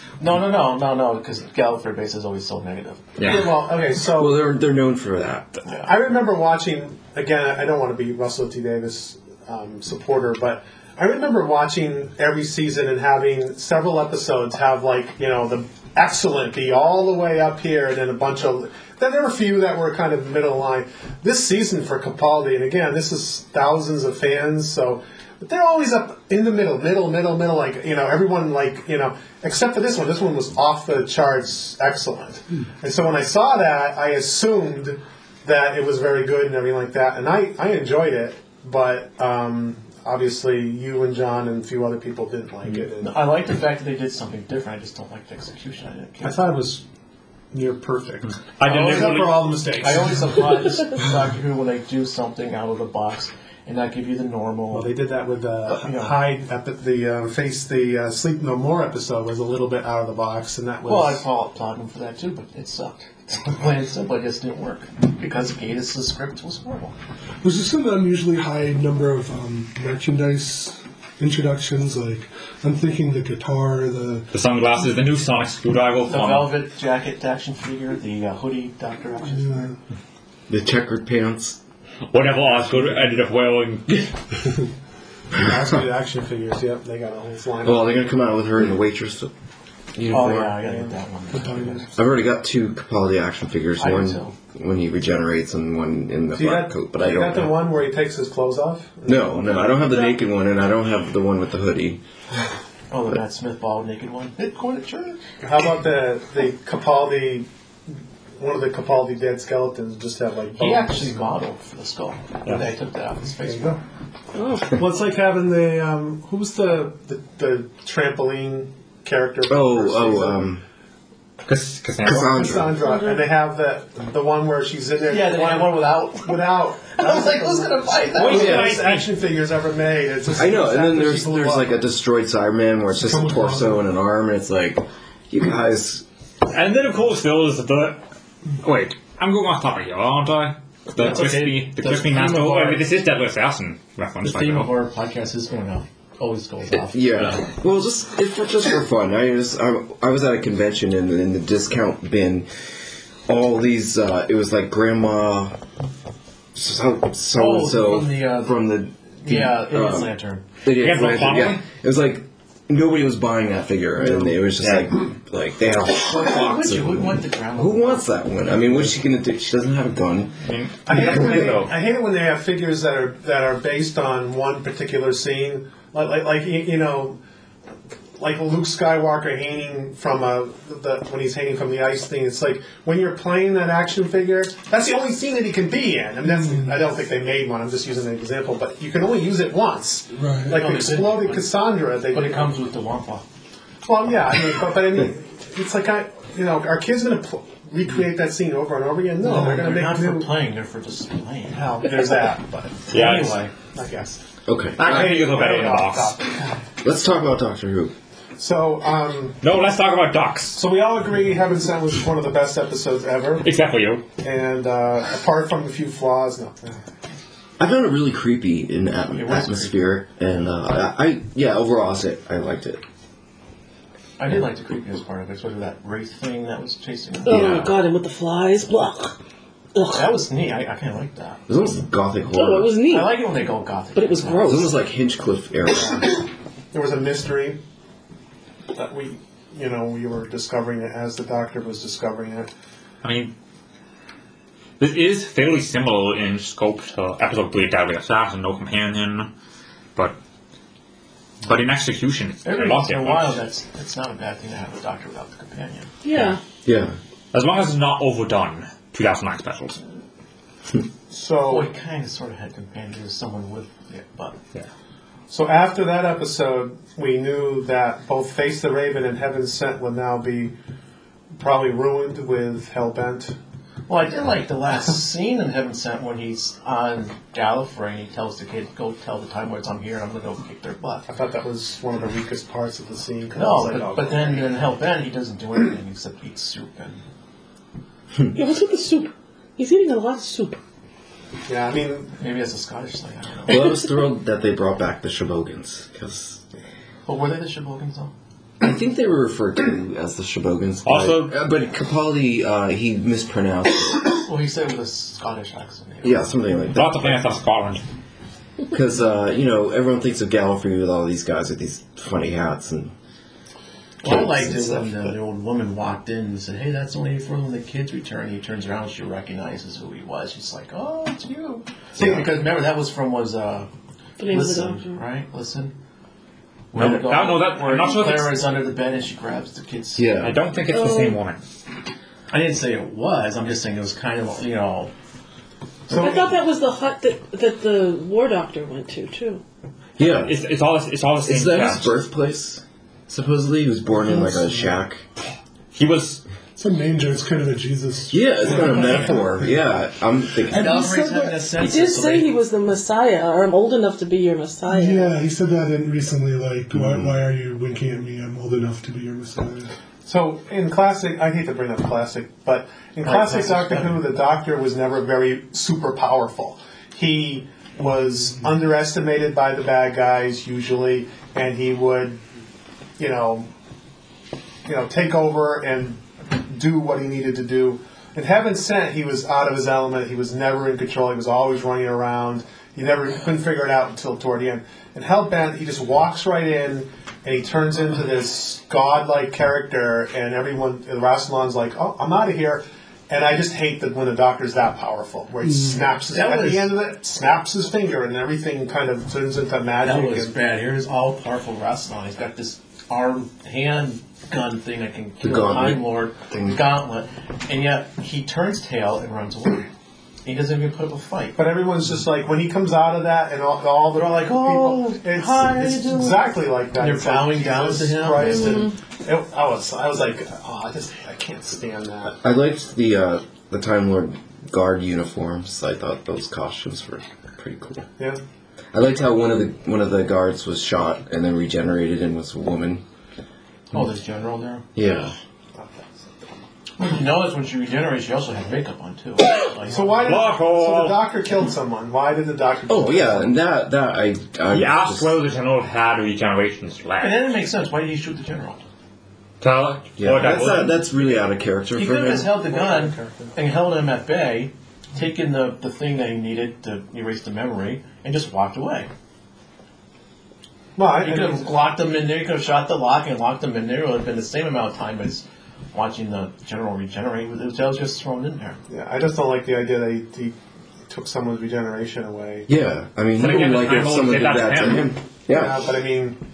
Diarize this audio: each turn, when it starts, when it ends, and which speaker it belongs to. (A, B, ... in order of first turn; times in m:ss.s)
0:00.2-0:03.2 A
0:03.2-0:03.5 B
0:03.2-0:04.4 C
0:04.0-0:05.6 D
0:05.8-0:43.2 C
0:43.0-0:46.4 A
0:46.2-0:46.8 C
0:47.5-0:50.4 C
0:48.6-0:49.6 B
0:48.6-0:54.9 A
0:54.7-1:01.2 C
0:55.7-0:56.1 A
1:00.8-1:06.9 A
1:07.4-1:14.3 E
1:14.3-1:16.5 B
1:16.1-1:19.7 A
1:19.4-1:19.7 E
1:20.5-1:21.6 D
1:22.1-1:24.1 B
1:25.3-1:28.0 C
1:27.6-1:29.3 D
1:29.9-1:30.6 D
1:30.1-1:32.0 A
1:30.6-1:31.8 C
1:32.0-1:37.5 D
1:33.8-1:34.3 A
1:36.3-1:40.1 C
1:39.0-1:42.0 D
1:42.9-1:45.2 A
1:45.4-1:47.5 C
1:48.4-1:51.2 C
1:50.6-1:53.8 A
1:53.4-1:53.8 C
1:54.3-1:54.7 F
1:54.7-2:00.4 C
1:59.5-2:00.6 D
2:01.4-2:02.4 B
2:02.0-2:02.8 D
2:02.0-2:11.7 C
2:02.8-2:03.2 F
2:05.1-2:08.7 A
2:08.1-2:09.1 B
2:10.3-2:16.0 D
2:13.1-2:13.6 E
2:16.5-2:18.0 B
2:18.6-2:24.7 B
2:20.9-2:22.8 A
2:24.2-2:27.5 A
2:26.8-2:32.5 D
2:33.3-2:35.6 D
2:36.5-2:40.1 D
2:37.3-2:38.7 A
2:39.2-2:40.4 A
2:40.6-2:50.4 D
2:40.7-2:41.6 B
2:44.6-2:44.9 B
2:45.9-2:48.0 A
2:50.4-2:51.7 B
2:50.8-2:57.2 C
2:58.2-3:12.5 C
3:06.2-3:06.7 E
3:10.1-3:10.5 E
3:10.5-3:11.5 A
3:12.1-3:13.2 A
3:13.8-3:20.3 C
3:19.2-3:21.6 A
3:21.5-3:22.9 C
3:22.9-3:23.4 B
3:22.9-3:23.5 A
3:23.7-3:24.2 C
3:24.4-3:25.0 D
3:24.8-3:26.2 B
3:24.8-3:26.5 C
3:26.8-3:27.9 D
3:28.4-3:29.4 C
3:29.4-3:30.6 B
3:30.5-3:33.5 C
3:33.4-3:34.0 B
3:34.2-3:36.8 C
3:37.6-3:42.8 D
3:39.1-3:39.9 A
3:44.2-3:47.7 A
3:47.2-3:49.2 F
3:47.2-3:47.7 D
3:49.7-3:50.1 F
3:49.9-3:51.4 A
3:51.5-3:52.8 D
3:52.3-3:53.2 F
3:52.8-3:54.5 A
3:53.9-3:54.7 F
3:54.4-3:56.2 D
3:56.7-3:57.6 C
3:58.7-4:02.5 C
4:03.0-4:03.3 B
4:04.8-4:09.3 B
4:11.4-4:13.4 B
4:12.4-4:15.9 A
4:16.0-4:16.4 F
4:16.6-4:17.0 D
4:17.3-4:19.8 B
4:21.1-4:21.7 C
4:21.4-4:24.4 A
4:25.3-4:30.5 C
4:31.3-4:33.3 C
4:33.9-4:41.1 A
4:41.1-4:44.4 C
4:43.3-4:47.0 A
4:48.3-4:50.6 F
4:51.5-4:52.1 C
4:52.2-4:53.6 A
4:53.5-4:56.4 D
4:57.0-4:58.1 A
4:58.6-5:04.1 D
5:00.8-5:01.4 B
5:04.2-5:06.3 A
5:06.0-5:07.2 D
5:06.7-5:07.8 B
5:08.7-5:12.9 D
5:14.0-5:23.7 A
5:14.0-5:15.1 D
5:21.9-5:22.3 D
5:24.2-5:25.0 F
5:24.2-5:25.7 A
5:26.7-5:30.1 A
5:26.7-5:28.4 B
5:30.0-5:30.4 D
5:30.2-5:31.4 B
5:30.7-5:31.2 F
5:32.3-5:34.9 A
5:35.9-5:36.2 A
5:35.9-5:36.3 C
5:35.9-5:39.4 F
5:40.0-5:40.4 D
5:40.0-5:42.0 B
5:41.2-5:45.0 D
5:45.7-5:46.2 B
5:46.6-5:49.5 E
5:48.1-5:50.8 D
5:48.6-5:49.0 A
5:50.4-5:51.5 E
5:50.5-5:52.4 A
5:51.5-5:55.2 F
5:54.7-5:59.7 E
5:56.7-5:57.1 D
6:00.0-6:12.2 C
6:03.0-6:04.0 A
6:13.0-6:13.5 C
6:14.6-6:40.4 C
6:36.1-6:36.7 A
6:39.8-6:49.7 A
6:45.2-6:46.6 D
6:50.2-6:51.4 A
6:51.4-7:02.2 C
6:53.9-6:58.6 A
7:02.2-7:07.9 D
7:08.7-7:12.8 D
7:13.7-7:14.6 A
7:14.7-7:15.2 D
7:15.6-7:16.1 C
7:16.8-7:20.1 A
7:19.7-7:23.3 C
7:20.0-7:21.0 B
7:22.7-7:25.2 D
7:24.5-7:27.2 B
7:27.0-7:28.6 A
7:29.4-7:30.8 B
7:30.0-7:32.4 D
7:31.7-7:38.9 A
7:32.4-7:33.4 C
7:40.8-7:41.5 C
7:41.0-7:48.6 A
7:48.7-7:50.3 C
7:50.9-7:52.5 C
7:52.5-7:55.7 D
7:53.2-7:54.9 B
7:55.3-7:56.2 C